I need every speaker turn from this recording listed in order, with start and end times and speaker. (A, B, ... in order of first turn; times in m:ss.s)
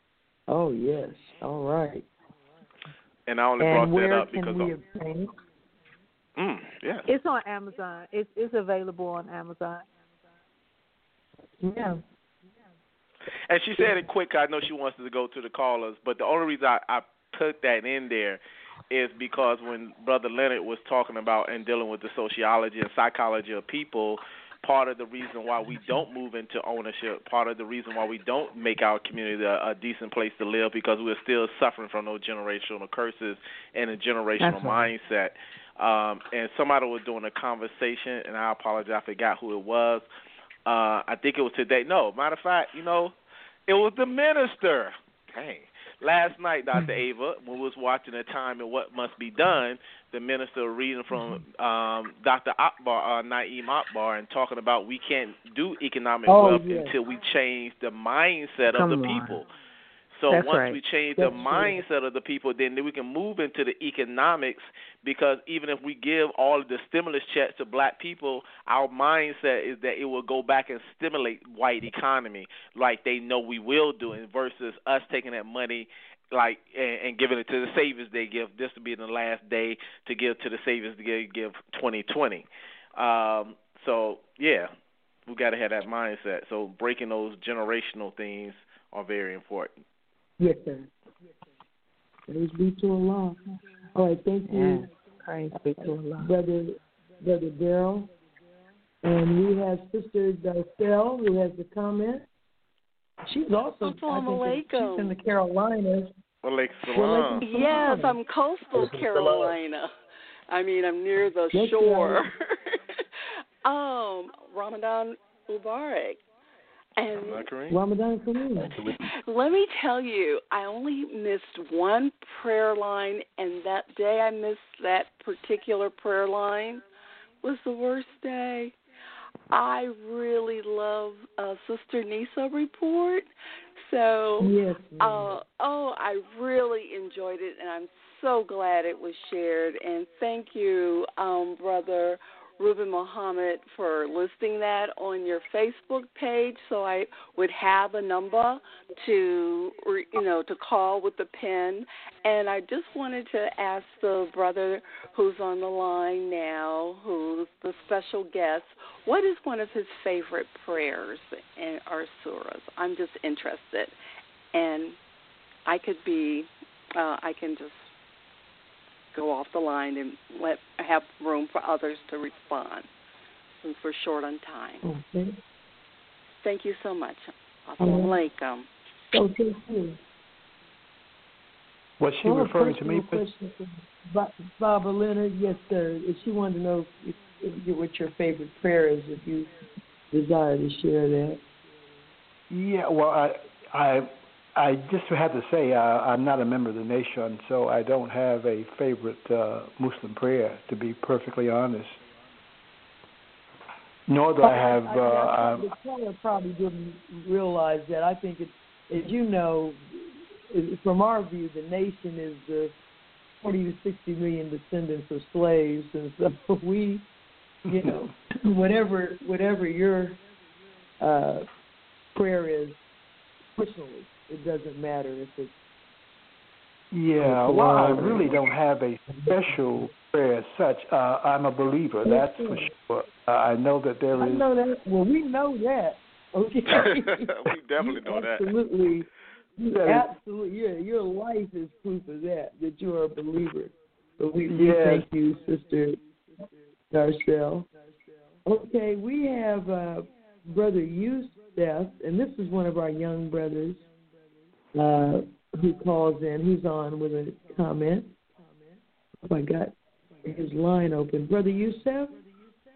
0:00.5-0:02.1 A
0:03.3-0:04.7 B
0:03.6-0:05.3 A
0:06.4-0:07.1 B
0:07.1-0:09.8 C
0:11.6-0:12.0 A
0:13.5-0:40.0 B
0:34.4-0:34.9 C
0:40.6-0:43.1 B
0:43.7-0:59.5 B
0:56.3-0:56.9 A
0:58.7-0:59.4 C
1:00.1-1:24.7 B
1:00.3-1:01.6 C
1:01.2-1:01.8 A
1:25.3-1:29.8 B
1:30.4-1:30.9 A
1:32.3-1:33.4 A
1:33.9-1:34.9 A
1:34.5-1:36.3 C
1:35.8-1:38.1 A
1:39.0-1:42.2 A
1:43.2-1:46.1 A
1:43.8-1:45.2 D
1:46.4-1:47.4 B
1:46.9-1:48.2 A
1:47.4-1:49.9 D
1:50.5-1:52.8 D
1:51.5-1:52.2 A
1:53.6-1:56.2 D
1:57.0-1:57.4 D
1:57.1-1:57.8 B
1:57.7-1:58.7 A
1:59.1-2:06.8 D
2:07.4-2:08.8 D
2:09.5-2:44.0 D
2:14.4-2:15.4 A
2:44.5-2:45.0 D
2:45.6-2:47.9 D
2:49.1-2:52.9 D
2:53.6-2:54.8 D
2:54.8-2:55.4 A
2:56.4-2:58.7 D
2:57.8-2:58.1 A
2:59.1-3:00.0 A
3:02.0-3:03.2 E
3:02.2-3:09.5 A
3:10.1-3:11.4 A
3:12.5-3:22.0 E
3:24.1-3:25.7 E
3:24.4-3:32.7 A
3:33.4-3:37.0 A
3:37.7-3:40.2 A
3:37.7-3:38.0 E
3:41.0-3:41.5 A
3:42.1-3:42.8 A
3:43.6-3:45.5 A
3:46.9-3:54.5 E
3:47.2-3:48.4 A
3:49.1-3:49.6 A
3:52.0-3:52.7 A
3:54.2-4:06.0 A
3:56.7-3:58.5 B
3:59.7-4:00.1 E
4:04.5-4:05.0 E
4:06.9-4:07.7 A
4:08.4-4:13.8 A
4:14.7-4:18.1 A
4:19.2-4:22.2 A